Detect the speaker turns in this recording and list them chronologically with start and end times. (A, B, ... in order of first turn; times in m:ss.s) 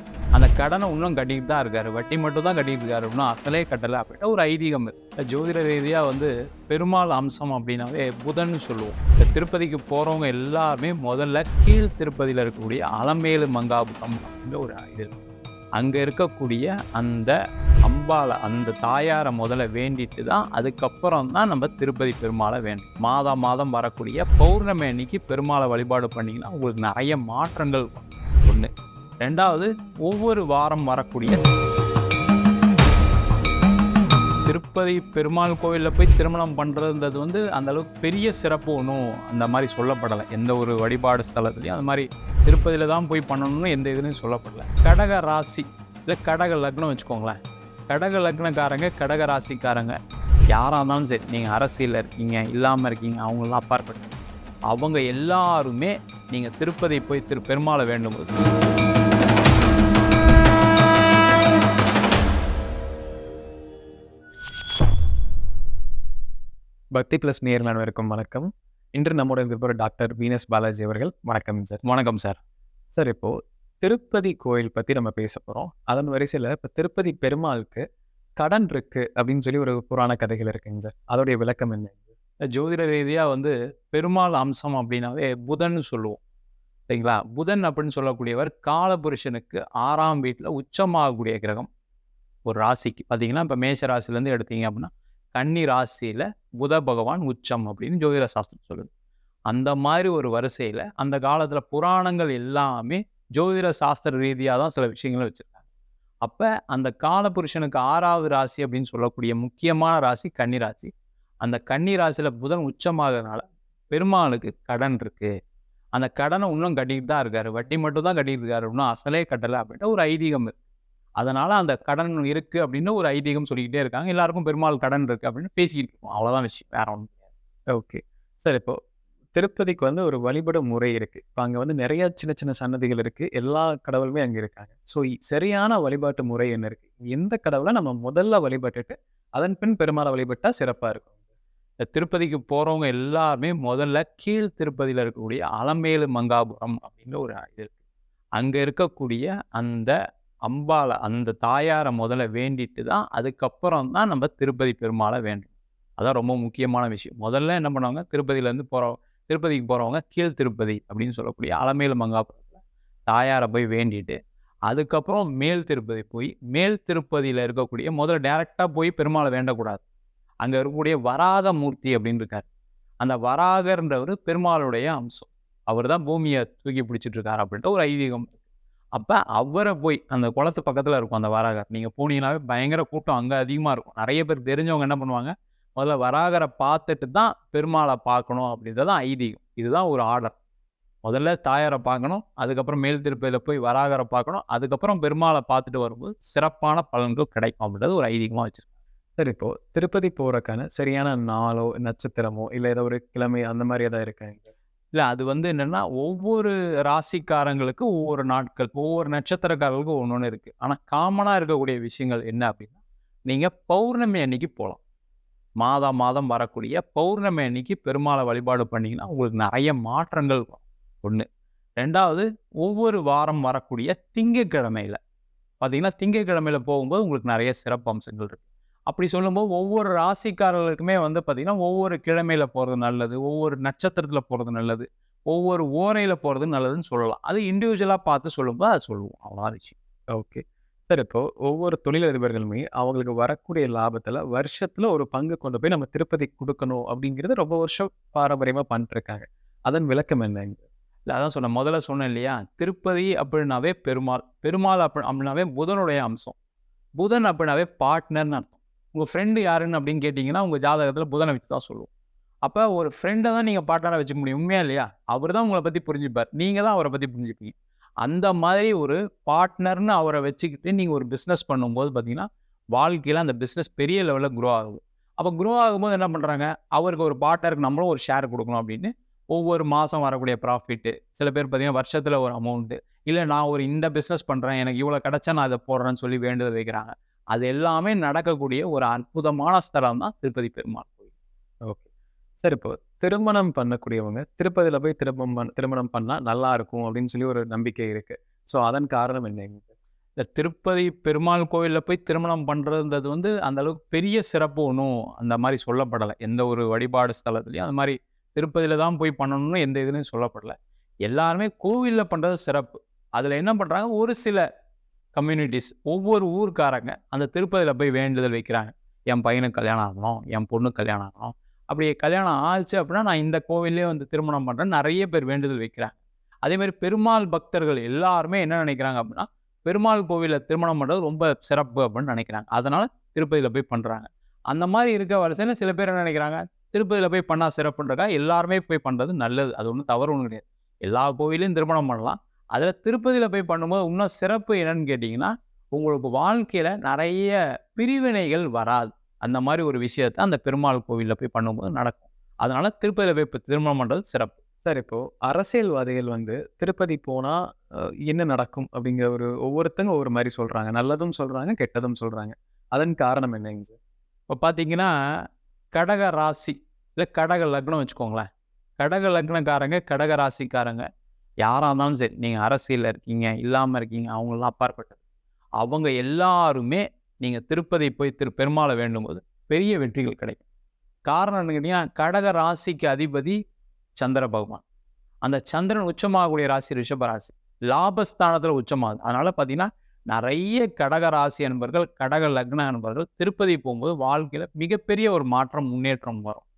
0:00.3-0:15.1 A
0:15.8-0:17.3 A
0:17.8-0:28.7 A
0:29.2-0:31.4 A
0:34.4-0:47.4 A
0:47.9-0:50.0 A
0:50.5-0:54.1 A
0:54.7-0:58.3 A
1:06.9-1:11.8 B
1:11.8-1:12.4 A
1:12.9-1:17.8 B
1:18.4-1:22.0 B
1:22.5-1:26.2 A
1:26.9-1:31.7 A
1:32.4-1:38.9 A
1:39.5-1:45.5 A
1:46.2-1:50.9 A
1:51.4-1:55.3 A
1:55.9-2:00.6 A
2:01.2-2:07.1 A
2:07.7-2:08.8 B
2:09.3-2:21.1 B
2:21.9-2:27.7 A
2:28.4-2:29.9 A
2:30.4-2:42.5 A
2:43.1-2:44.2 A
2:44.7-2:49.8 A
2:50.4-2:52.4 A
2:53.0-2:58.3 A
2:58.9-3:10.3 A
3:11.0-3:18.6 A
3:19.2-3:24.5 B
3:24.9-3:32.7 A
3:33.3-3:34.8 A
3:35.6-3:41.2 A
3:41.8-3:45.0 A
3:45.6-3:59.7 A
4:00.1-4:10.6 B
4:11.1-4:16.4 A
4:17.0-4:21.9 A
4:22.4-4:51.0 A
4:52.4-4:59.7 B
5:00.2-5:14.4 A
5:15.1-5:54.4 A
5:54.6-5:57.4 B
5:58.1-6:03.8 B
6:04.3-6:04.9 A
6:05.7-6:08.2 A
6:08.8-6:10.8 A
6:11.4-6:15.0 A
6:15.6-6:20.4 A
6:21.1-6:23.4 A
6:24.0-6:24.6 A
6:25.2-6:36.4 A